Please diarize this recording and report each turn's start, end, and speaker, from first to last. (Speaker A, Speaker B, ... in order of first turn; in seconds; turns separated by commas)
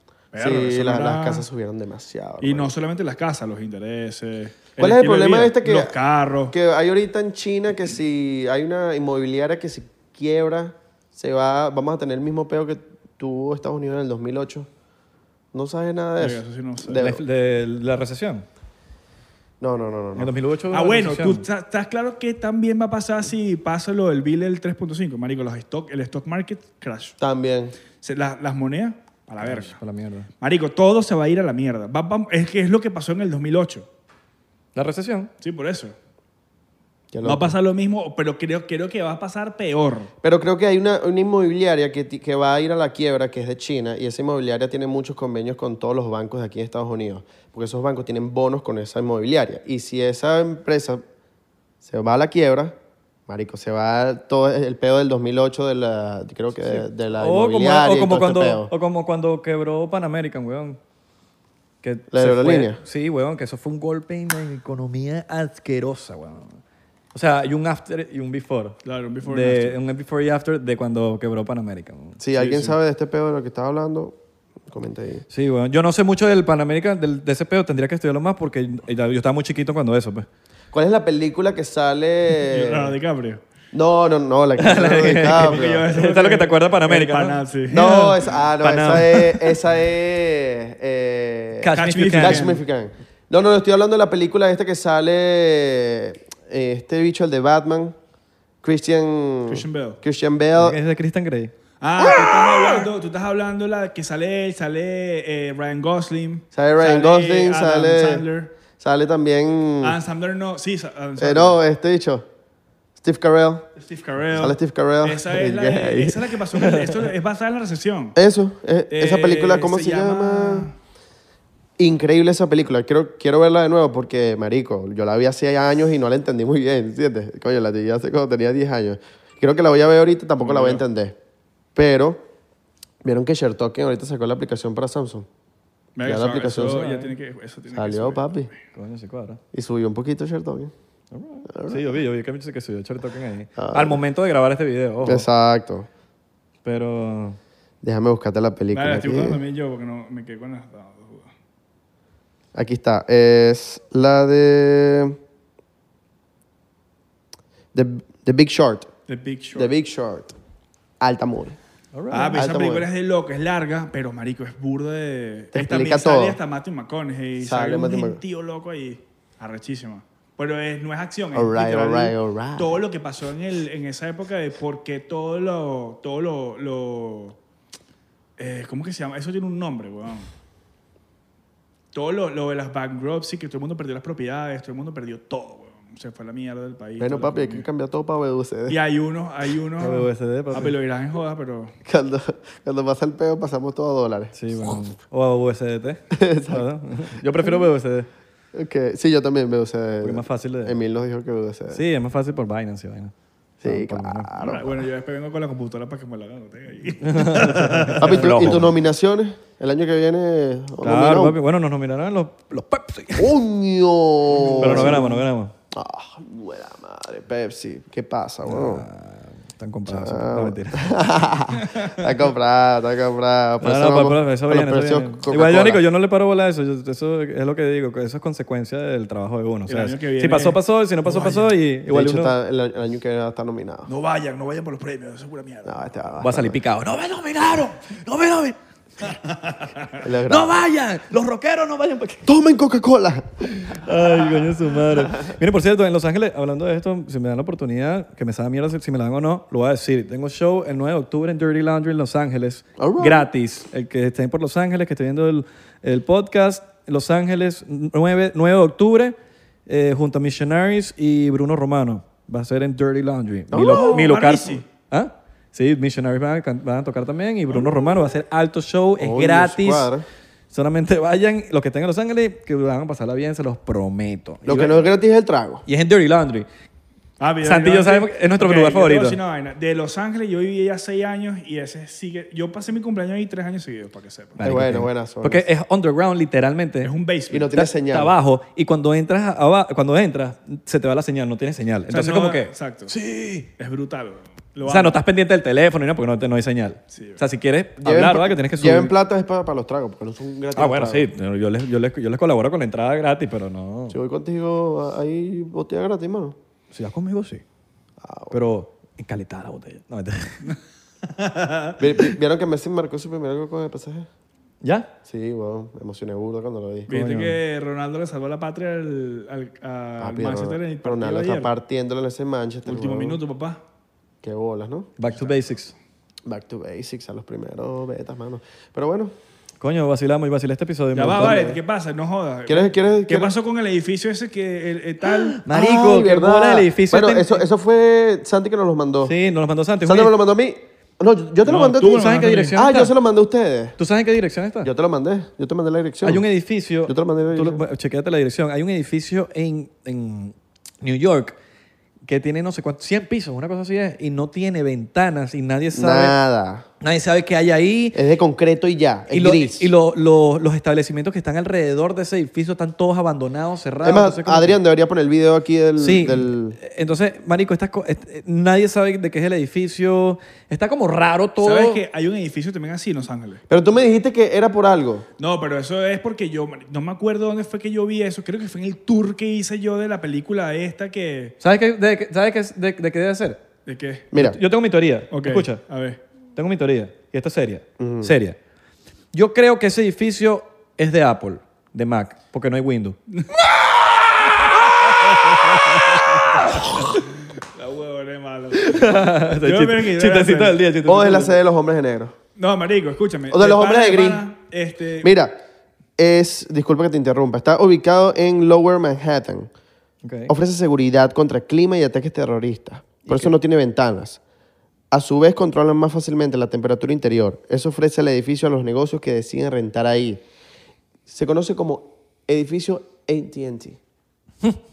Speaker A: 0.3-1.4, Speaker B: 0.4-2.7, Speaker A: 2.4-6.5, Speaker B: 4.8-5.9, Speaker B: 6.5-14.7, Speaker B: 15.5-17.2, Speaker A: 16.2-17.0, Speaker C: 16.9-18.4, Speaker B: 19.6-20.3, Speaker C: 20.1-21.4, Speaker A: 20.7-27.1, Speaker B: 27.2-27.8, Speaker A: 28.0-29.8, Speaker C: 29.4-30.3, Speaker A: 30.4-33.9, Speaker C: 34.7-35.3, Speaker A: 35.4-35.9, Speaker B: 37.1-37.5, Speaker A: 37.2-40.1, Speaker B: 40.2-51.0, Speaker B: 51.8-52.7, Speaker B: 53.3-58.7, Speaker C: 56.6-60.8, Speaker C: 61.8-66.6, Speaker B: 62.1-62.8, Speaker C: 67.1-72.2, Speaker A: 68.8-69.8, Speaker B: 72.2-74.2, Speaker A: 72.4-72.7, Speaker B: 74.7-75.2, Speaker C: 75.3-80.3, Speaker B: 80.7-82.9, Speaker A: 82.5-83.4, Speaker B: 83.7-85.8, Speaker C: 84.6-87.4, Speaker A: 85.0-88.3, Speaker B: 87.7-98.0, Speaker C: 88.6-89.6, Speaker C: 91.6-92.5, Speaker A: 91.7-92.6, Speaker B: 98.6-100.8, Speaker A: 99.5-100.0, Speaker C: 100.6-101.5, Speaker A: 101.8-108.5, Speaker B: 106.5-108.2, Speaker B: 108.8-110.0, Speaker A: 109.8-111.6, Speaker B: 111.2-112.2, Speaker B: 113.0-113.7, Speaker A: 113.8-118.2, Speaker B: 114.3-116.2, Speaker C: 116.5-117.1, Speaker B: 118.2-120.7, Speaker A: 118.9-120.7, Speaker B: 121.8-131.2, Speaker A: 130.4-130.8, Speaker B: 131.7-132.2, Speaker B: 133.0-135.3, Speaker A: 135.9-138.6, Speaker B: 136.0-136.8, Speaker C: 136.6-137.1, Speaker B: 137.7-138.5, Speaker C: 138.7-139.4, Speaker B: 139.5-140.7, Speaker C: 141.1-145.3, Speaker B: 141.5-141.8, Speaker B: 143.6-144.0, Speaker B: 145.0-145.9, Speaker C: 146.6-147.4, Speaker B: 147.8-149.4, Speaker A: 148.7-151.3, Speaker B: 152.5-155.2, Speaker B: 157.7-158.9, Speaker A: 159.1-159.7, Speaker B: 159.5-160.3, Speaker B: 161.0-161.6, Speaker C: 161.9-162.4, Speaker A: 162.1-177.4, Speaker B: 162.3-162.9, Speaker B: 165.5-166.4, Speaker B: 167.4-168.2, Speaker B: 171.3-172.8, Speaker A: 178.4-180.3, Speaker A: 181.9-187.7, Speaker B: 187.0-188.8, Speaker A: 188.7-191.7, Speaker C: 189.8-190.7, Speaker B: 191.8-194.8, Speaker C: 194.3-198.1, Speaker B: 196.1-196.7, Speaker B: 198.5-201.8, Speaker C: 200.0-200.8, Speaker C: 201.7-203.1, Speaker B: 203.6-204.7, Speaker C: 203.6-204.3, Speaker A: 204.4-208.2, Speaker C: 207.0-208.7, Speaker B: 208.0-211.4, Speaker C: 210.8-213.3, Speaker B: 213.2-215.2, Speaker A: 214.4-215.0, Speaker C: 214.6-215.5, Speaker B: 215.7-218.8, Speaker C: 218.4-221.0, Speaker B: 219.9-225.8, Speaker C: 223.6-232.3, Speaker A: 229.7-231.5, Speaker B: 231.9-233.9, Speaker A: 233.9-235.8, Speaker B: 235.6-236.6, Speaker C: 236.2-238.6, Speaker A: 239.0-240.0, Speaker B: 240.0-240.6, Speaker C: 240.3-242.3, Speaker B: 242.2-243.8, Speaker C: 243.4-259.1, Speaker B: 252.8-253.3, Speaker C: 259.7-269.9, Speaker B: 263.5-264.1, Speaker A: 263.6-264.6, Speaker B: 269.0-270.1, Speaker C: 270.5-274.8, Speaker B: 274.4-275.6, Speaker C: 275.6-276.5, Speaker A: 277.2-284.4, Speaker C: 277.4-279.2, Speaker C: 284.4-286.9, Speaker B: 284.4-285.5, Speaker A: 286.8-287.5, Speaker B: 287.3-288.1, Speaker C: 287.5-293.5, Speaker A: 291.9-292.9, Speaker A: 293.6-295.0, Speaker C: 294.6-298.9, Speaker A: 296.9-297.2, Speaker B: 297.8-301.1, Speaker C: 300.5-304.0, Speaker B: 303.9-306.4, Speaker C: 306.7-307.4, Speaker B: 308.0-308.4, Speaker C: 308.3-310.5, Speaker A: 311.1-311.8, Speaker B: 311.8-314.1, Speaker C: 314.6-314.9, Speaker B: 315.0-316.9, Speaker C: 316.9-317.4, Speaker A: 316.9-321.5, Speaker B: 320.0-323.2, Speaker A: 322.6-323.6, Speaker B: 324.2-324.9, Speaker C: 325.0-325.7, Speaker A: 325.1-325.4, Speaker B: 326.2-329.1, Speaker C: 329.6-331.4, Speaker A: 330.9-335.4, Speaker B: 331.1-331.6, Speaker B: 332.5-333.3, Speaker C: 335.3-337.4, Speaker B: 335.5-339.1, Speaker C: 339.0-340.1, Speaker B: 339.8-343.8, Speaker A: 341.4-342.6, Speaker C: 341.9-342.9, Speaker C: 343.8-344.7, Speaker B: 344.6-346.2, Speaker C: 346.0-351.4, Speaker B: 346.8-347.6, Speaker C: 352.0-356.1, Speaker B: 355.7-356.6, Speaker C: 356.8-358.0, Speaker B: 357.9-359.7, Speaker C: 359.1-364.6, Speaker B: 363.8-366.6, Speaker C: 365.8-371.8, Speaker A: 371.4-373.4, Speaker B: 373.5-375.1, Speaker A: 375.2-381.4, Speaker C: 381.4-383.4, Speaker A: 383.6-384.1, Speaker B: 384.1-384.4, Speaker C: 384.1-385.6, Speaker A: 385.1-386.0, Speaker C: 386.4-388.4, Speaker B: 387.8-388.1, Speaker C: 389.1-393.0, Speaker A: 394.9-395.5, Speaker C: 395.4-396.9, Speaker A: 396.9-400.6, Speaker C: 398.5-401.4, Speaker B: 400.9-402.1, Speaker A: 402.4-405.1, Speaker B: 403.3-404.2, Speaker B: 405.0-405.4, Speaker B: 406.0-409.5, Speaker C: 410.0-410.3, Speaker B: 410.3-414.2, Speaker C: 413.1-413.3, Speaker B: 414.9-420.2, Speaker B: 421.1-423.8